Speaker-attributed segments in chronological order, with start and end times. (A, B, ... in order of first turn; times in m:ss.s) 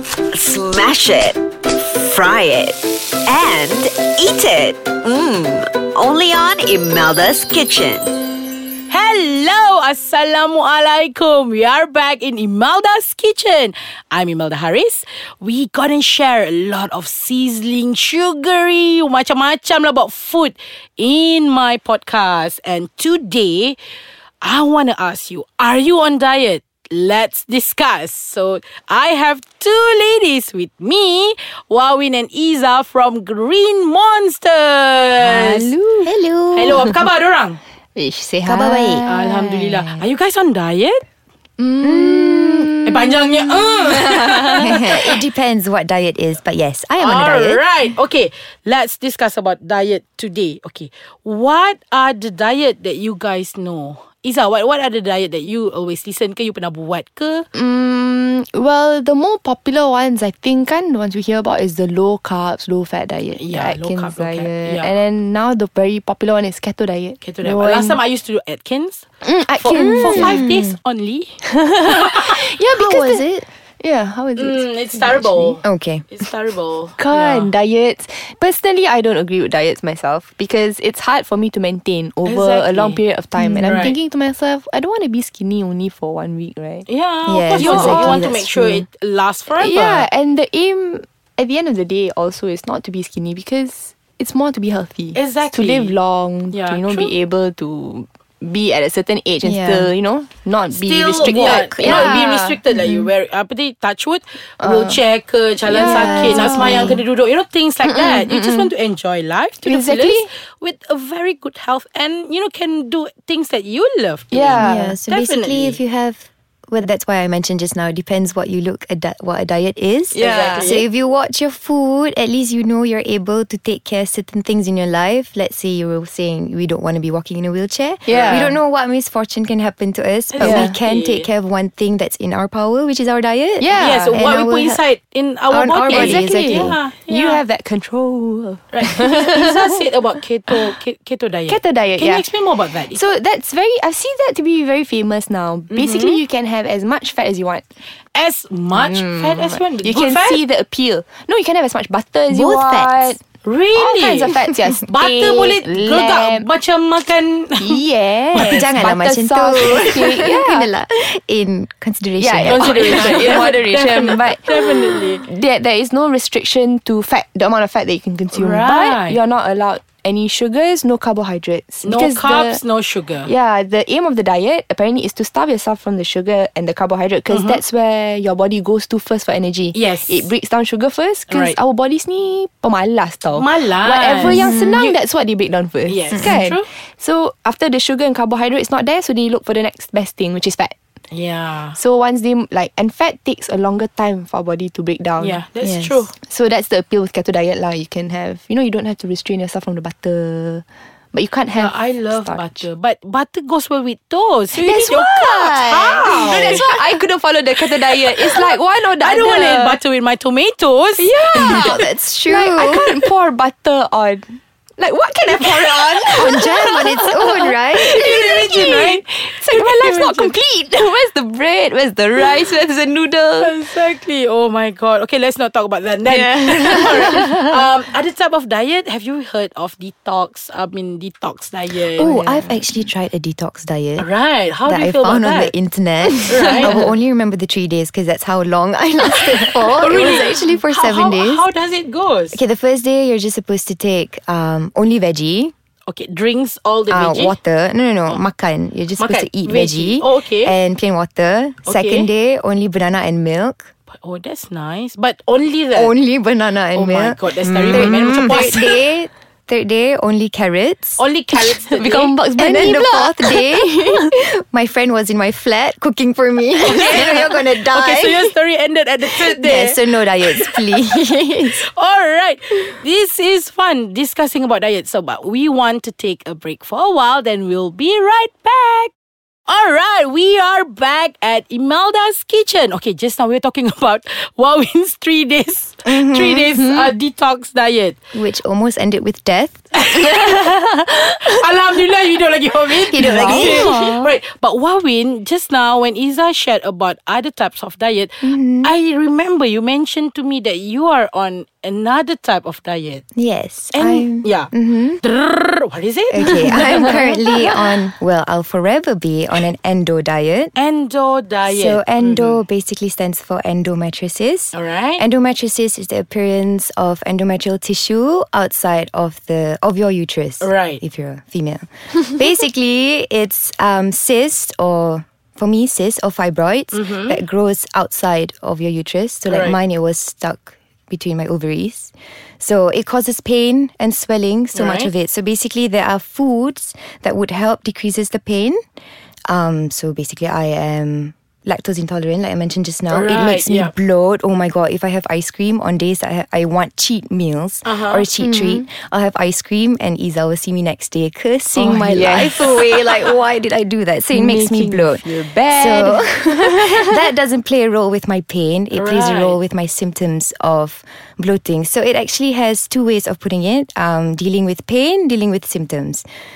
0:00.3-0:08.2 A
0:08.9-0:23.8 B
0:24.4-0:35.8 B
0:35.2-0:36.1 C
0:36.0-0:36.8 D
0:36.5-0:37.6 B
0:36.7-0:37.0 C
0:38.0-0:40.0 C
0:38.4-0:39.1 D
0:39.0-0:41.0 B
0:41.6-0:44.8 C
0:41.8-0:42.8 D
0:42.8-0:45.2 B
0:44.6-0:47.6 D
0:47.0-0:57.5 B
0:57.5-1:08.0 C
1:03.4-1:04.9 B
1:07.2-1:12.4 B
1:09.2-1:10.6 C
1:09.7-1:10.7 D
1:11.4-1:15.6 C
1:12.7-1:13.5 D
1:14.4-1:17.5 B
1:15.6-1:16.1 D
1:17.0-1:26.9 C
1:22.2-1:23.0 B
1:23.4-1:23.8 D
1:23.6-1:24.0 B
1:26.9-1:30.1 B
1:27.3-1:28.9 D
1:27.6-1:28.3 C
1:29.6-1:42.6 C
1:35.2-1:36.0 B
1:36.5-1:37.1 B
1:39.4-1:39.9 D
1:40.7-1:55.8 B
1:41.3-1:42.1 D
1:44.6-1:45.0 D
1:45.7-1:47.0 D
1:45.7-1:47.0 C
1:47.8-1:48.7 C
1:49.6-1:50.3 C
1:54.3-1:55.0 C
1:54.6-2:14.8 D
2:00.1-2:00.8 C
2:00.2-2:00.8 B
2:08.1-2:08.5 B
2:08.1-2:08.6 C
2:10.3-2:11.3 B
2:10.4-2:10.7 C
2:13.6-2:14.3 C
2:13.8-2:17.4 B
2:15.5-2:16.8 D
2:15.9-2:19.8 C
2:18.7-2:23.1 B
2:20.5-2:20.8 C
2:21.5-2:22.3 C
2:22.9-2:27.6 C
2:25.7-2:26.2 B
2:28.1-2:30.4 B
2:28.7-2:33.2 C
2:32.3-2:33.2 D
2:33.4-2:34.4 B
2:33.8-2:36.5 C
2:34.9-2:37.8 B
2:37.6-2:40.7 C
2:38.4-2:43.2 D
2:42.2-2:52.6 C
2:42.4-2:45.2 B
2:48.3-2:49.2 B
2:51.8-2:53.3 B
2:53.2-3:10.7 C
2:57.3-2:57.6 B
2:59.7-3:00.3 B
3:01.3-3:01.6 B
3:03.3-3:05.0 B
3:05.9-3:06.7 B
3:11.1-3:11.8 B
3:11.8-3:15.4 C
3:15.2-3:16.2 B
3:15.6-3:16.0 D
3:16.2-3:22.7 C
3:21.6-3:26.8 B
3:24.5-3:29.8 C
3:27.7-3:31.8 B
3:31.0-3:43.6 C
3:31.3-3:33.0 D
3:35.3-3:36.1 B
3:36.2-3:38.2 D
3:37.8-3:40.4 B
3:43.4-3:52.1 B
3:46.0-3:47.7 C
3:52.0-3:52.7 C
3:52.0-3:54.1 D
3:54.0-3:55.6 B
3:54.6-4:01.5 D
3:56.3-3:56.8 B
3:56.3-3:56.9 C
3:59.7-4:02.4 B
4:02.3-4:05.5 D
4:05.9-4:07.4 B
4:06.9-4:13.7 D
4:09.0-4:10.6 B
4:11.7-4:12.1 B
4:13.9-4:15.9 B
4:15.7-4:21.0 D
4:16.7-4:18.8 B
4:17.7-4:18.6 C
4:21.0-4:22.2 B
4:21.3-4:24.1 C
4:22.4-4:28.3 D
4:26.6-4:38.9 B
4:29.1-4:31.6 D
4:39.5-4:48.0 B
4:45.8-4:46.5 D
4:48.1-4:49.7 D
4:49.8-5:03.0 B
4:52.9-4:53.7 D
4:53.2-4:54.1 C
4:58.2-4:58.7 D
5:03.2-5:05.0 D
5:03.7-5:04.5 B
5:05.0-5:07.4 B
5:06.1-5:10.6 D
5:06.3-5:07.2 C
5:10.6-5:12.4 B
5:11.4-5:38.6 D
5:14.5-5:15.0 B
5:20.4-5:20.8 B
5:26.7-5:27.2 B
5:29.3-5:29.6 B
5:34.5-5:34.9 B
5:39.3-6:06.0 D
5:42.9-5:43.7 B
5:47.6-5:48.1 B
5:48.2-5:48.6 C
5:51.6-5:53.1 C
5:51.8-5:52.4 B
5:54.1-5:57.1 C
5:58.7-5:59.4 B